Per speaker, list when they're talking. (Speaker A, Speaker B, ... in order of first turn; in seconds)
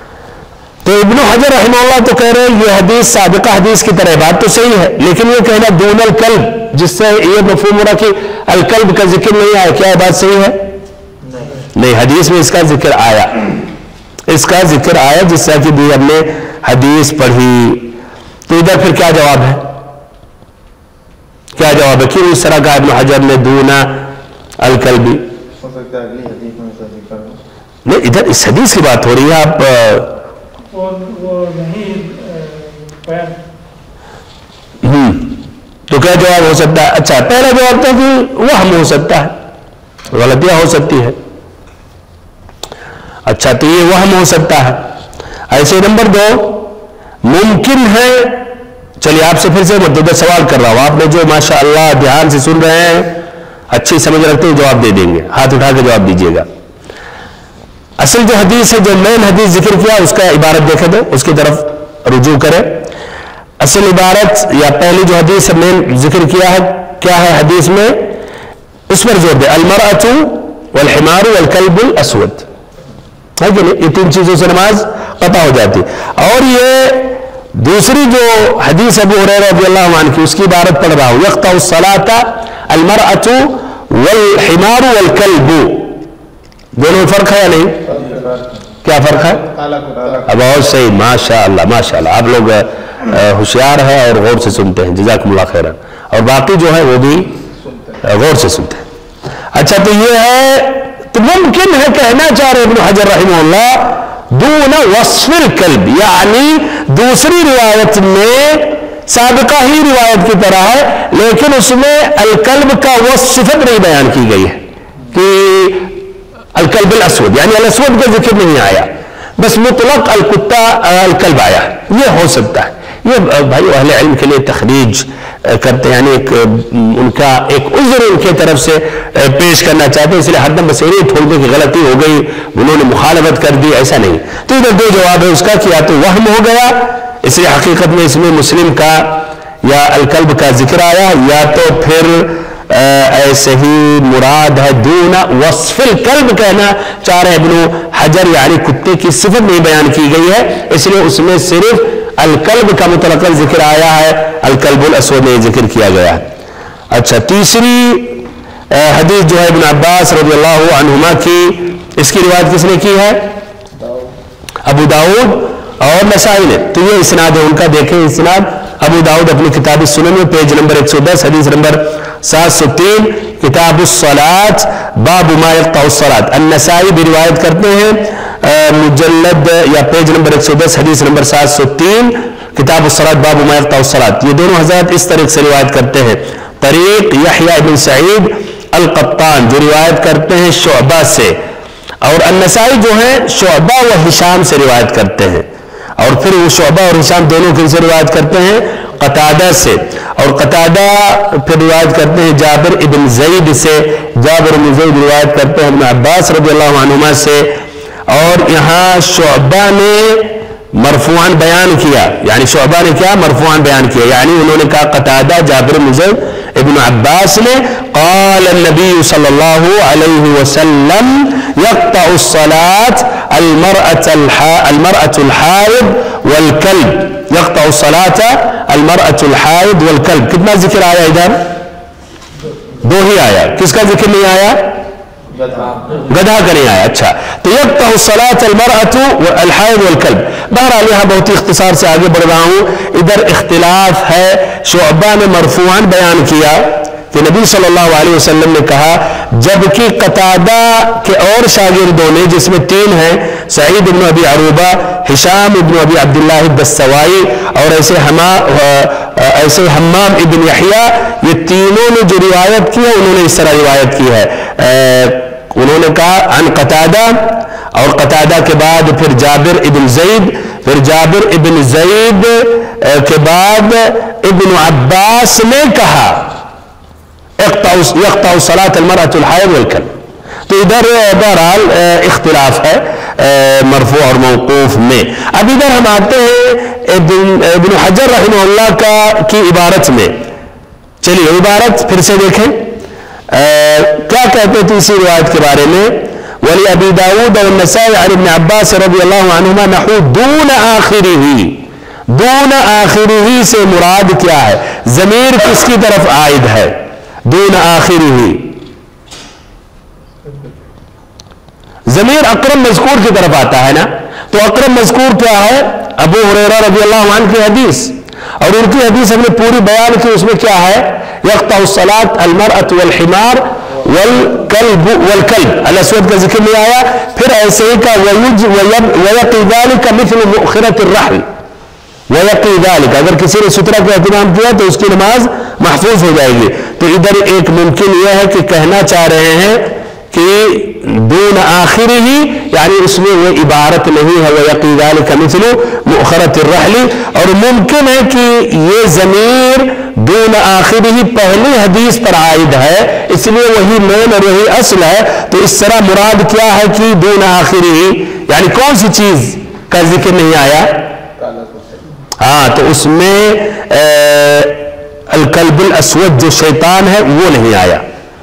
Speaker A: 0.8-10.6, 11.7-13.5, 14.3-17.9, 18.5-19.6, 21.6-25.2, 27.8-30.1, 34.8-35.4, 35.9-39.3, 40.1-41.1, 43.2-44.9, 45.5-48.5, 49.0-56.5, 58.0-62.9, 63.6-68.1, 68.9-72.5, 73.4-86.0, 86.8-87.8, 88.8-89.4, 90.3-97.3, 98.0-98.8, 99.5-114.6, 115.1-116.0, 116.5-156.3, 156.9-163.3, 164.6-191.4, 192.0-195.5, 196.0-207.5, 208.1-231.5, 232.8-234.8, 236.1-276.4, 277.4-279.9, 280.5-290.2, 291.0-292.7, 293.3-308.6, 311.9-331.3, 332.1-360.9, 362.2-367.8
Speaker B: 11.2-11.5, 25.6-27.4, 87.9-88.7, 89.4-90.3, 235.3-236.1, 361.2-361.7
Speaker C: 30.7-33.4